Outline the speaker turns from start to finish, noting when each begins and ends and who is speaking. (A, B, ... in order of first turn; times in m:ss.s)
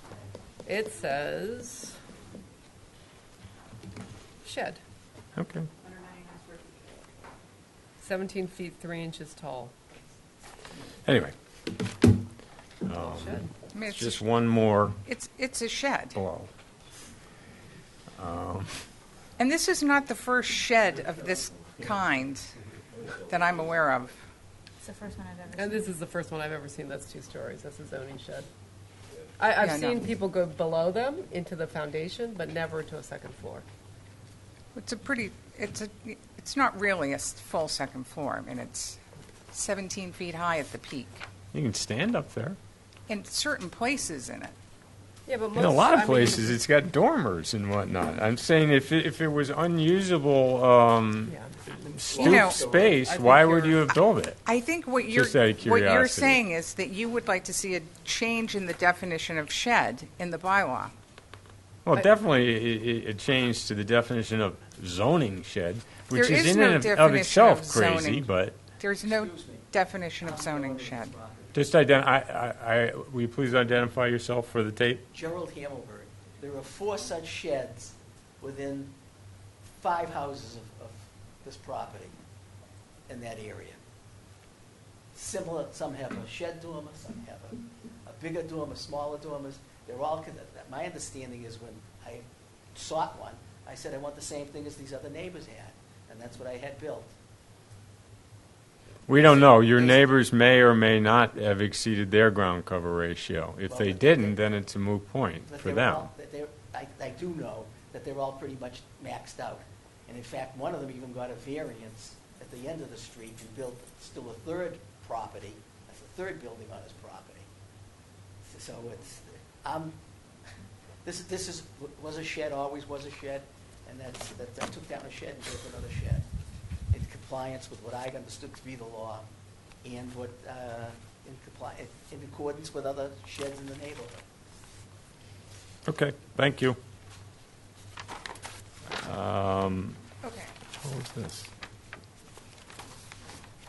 0:00.7-0:02.0 A
0:04.4-0:04.8 A
0:05.4-0:05.7 B
0:05.8-0:06.8 C
0:08.0-0:09.7 A
0:11.1-0:11.9 B
0:12.8-0:15.0 B
0:13.0-0:13.5 A
0:13.7-0:14.2 D
0:15.0-0:16.2 D
0:16.2-0:16.5 B
0:18.2-0:18.8 B
0:19.4-0:22.5 D
0:23.1-0:24.2 D
0:24.8-0:26.0 C
0:25.6-0:28.5 A
0:29.4-0:33.7 A
0:29.6-0:30.0 D
0:34.8-0:39.0 D
0:39.5-0:41.2 D
0:41.5-0:42.6 B
0:43.1-0:44.5 D
0:45.3-0:46.6 A
0:45.6-0:54.4 B
0:52.1-0:53.0 E
0:52.2-0:52.7 D
0:53.1-0:53.8 A
0:54.4-1:00.9 D
0:55.1-0:56.4 B
1:01.9-1:08.6 B
1:06.1-1:11.1 D
1:09.1-1:09.7 E
1:10.2-1:11.6 E
1:11.5-1:15.0 B
1:15.1-1:19.0 E
1:19.7-1:22.2 E
1:23.1-1:23.8 E
1:25.1-1:37.1 E
1:39.1-1:46.1 B
1:39.1-1:40.1 E
1:43.7-1:44.4 E
1:45.5-1:57.5 E
1:58.4-2:00.0 E
2:01.0-2:06.2 E
2:06.9-2:09.2 E
2:09.8-2:14.2 E
2:15.9-2:16.8 B
2:19.0-2:20.0 B
2:20.2-2:20.5 D
2:20.8-2:21.5 B